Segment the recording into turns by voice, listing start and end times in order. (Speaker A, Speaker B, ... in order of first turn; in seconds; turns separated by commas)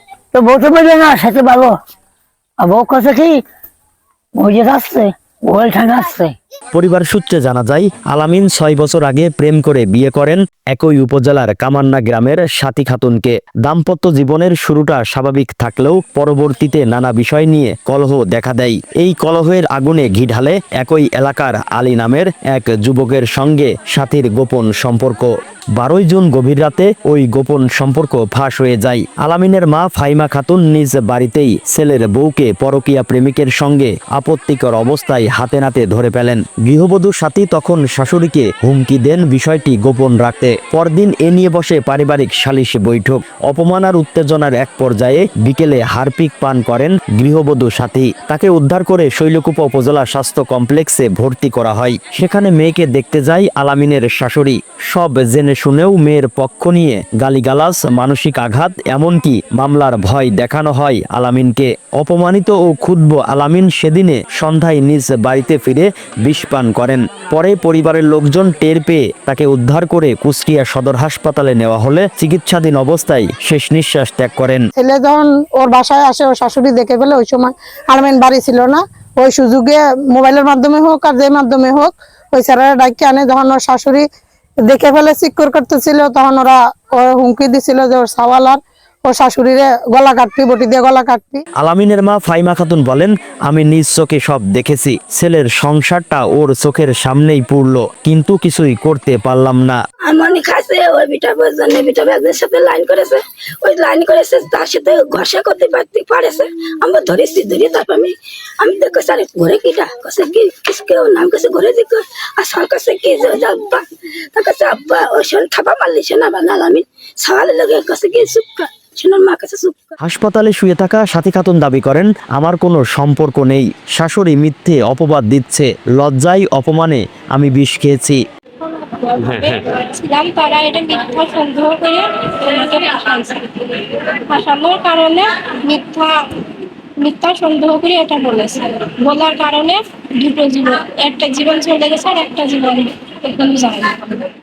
Speaker A: 0.3-1.7, Speaker A: 2.6-3.4, Speaker A: 4.4-6.3, Speaker B: 6.7-74.7, Speaker C: 74.8-84.0, Speaker C: 84.6-91.4, Speaker B: 91.6-99.8, Speaker D: 100.1-120.0, Speaker B: 120.0-128.2, Speaker E: 128.6-136.1, Speaker E: 137.0-144.2